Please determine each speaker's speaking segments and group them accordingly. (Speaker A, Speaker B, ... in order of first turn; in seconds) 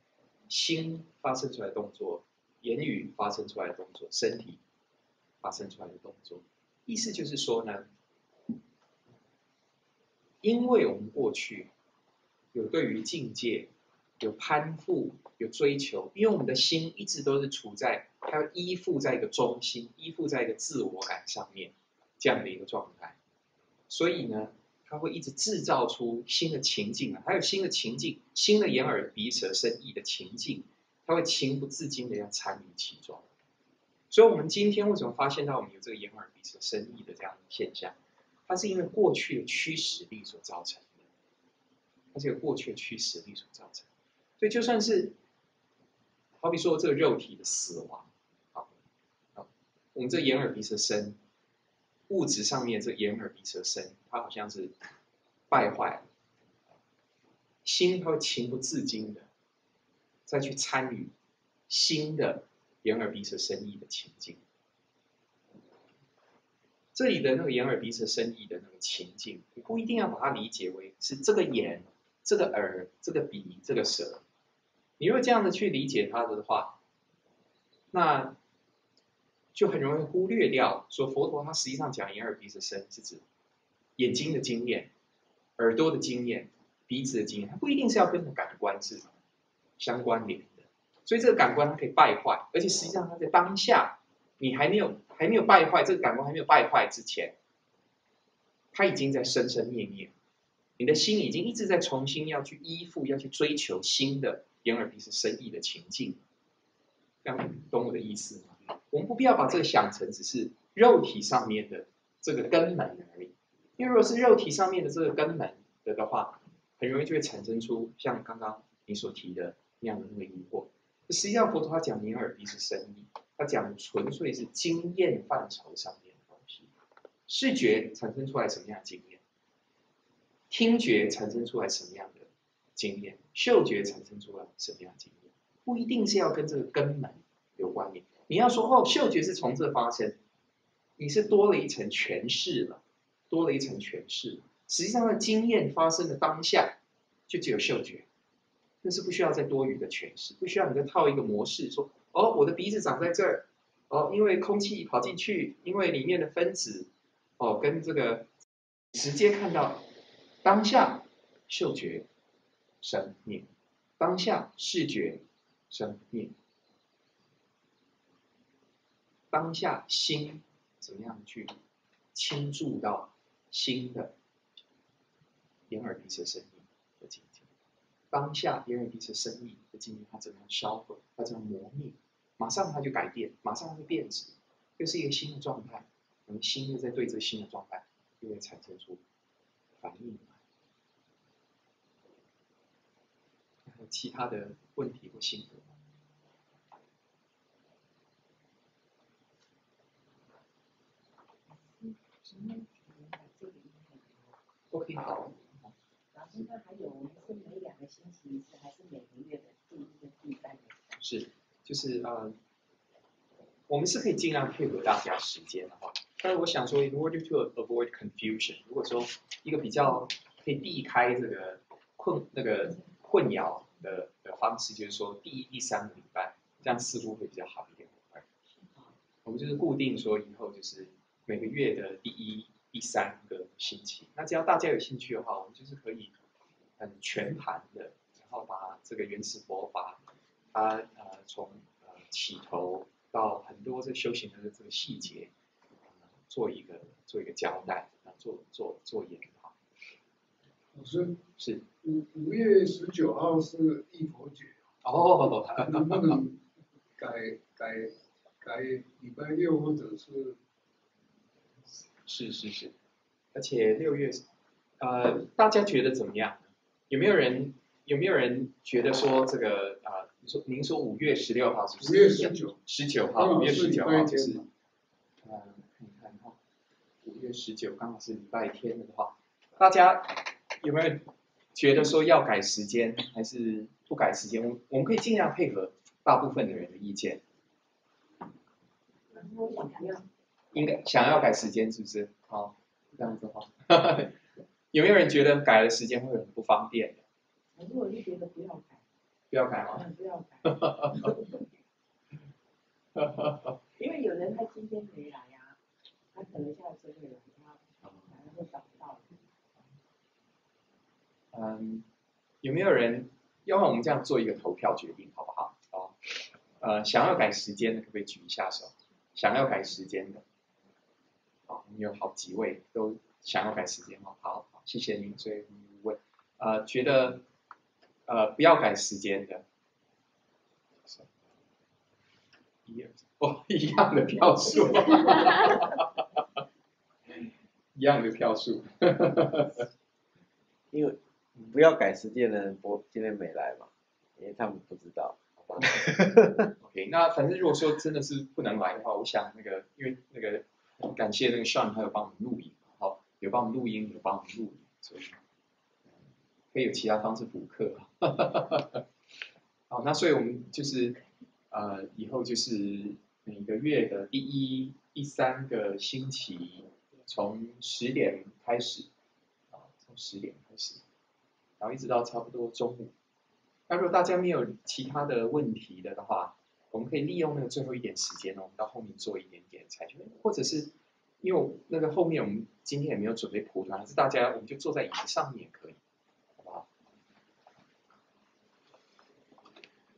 Speaker A: 0.5-4.6, 5.4-7.9, 10.4-11.7, 12.5-23.2, 23.9-33.3, 34.1-37.9, 38.5-41.0, 42.1-43.9, 44.4-45.1, 46.4-48.7, 49.4-51.2, 52.1-54.7, 55.5-56.0, 57.6-59.3, 60.3-61.1, 61.7-64.4, 66.9-74.2, 75.0-76.8, 77.9-78.4, 79.5-83.2, 84.0-84.9, 85.6-89.1, 89.8-97.3, 98.7-100.1, 100.8-106.2, 107.2-126.7, 127.3-129.2, 130.5-140.2, 141.0-148.1, 148.8-158.3, 158.9-159.8, 160.4-162.1, 162.8-166.3, 169.3-171.5, 172.1-174.1, 175.7-177.5, 178.1-189.0, 189.8-190.4, 193.7-195.7, 204.7-205.7, 211.0-212.3, 213.7-228.2, 229.2-236.1, 236.8-240.0, 240.5-245.3, 246.3-249.5, 251.4-251.6, 254.8-256.2, 262.0-262.7, 263.3-264.2, 264.8-274.4, 275.2-276.4, 277.0-287.2, 290.5-294.1, 294.7-297.0, 299.3-299.8, 300.4-301.1, 303.0-303.5, 311.3-311.8, 312.4-320.2, 321.5-327.2, 328.1-329.4, 330.9-331.1, 332.7-336.0, 337.8-339.6, 345.4-345.9, 346.6-355.2, 356.5-358.8, 359.7-361.0, 361.5-368.9, 369.5-370.8, 371.6-372.9, 373.7-385.8, 386.4-386.6
Speaker B: 201.5-204.3, 206.1-211.0, 289.1-290.1, 297.5-298.8, 299.7-301.4, 303.8-305.6, 306.1-309.2
Speaker C: 250.7-251.2, 251.8-254.6, 255.5-256.4, 257.0-260.4, 271.8-272.6, 273.1-274.5
Speaker D: 340.7-346.4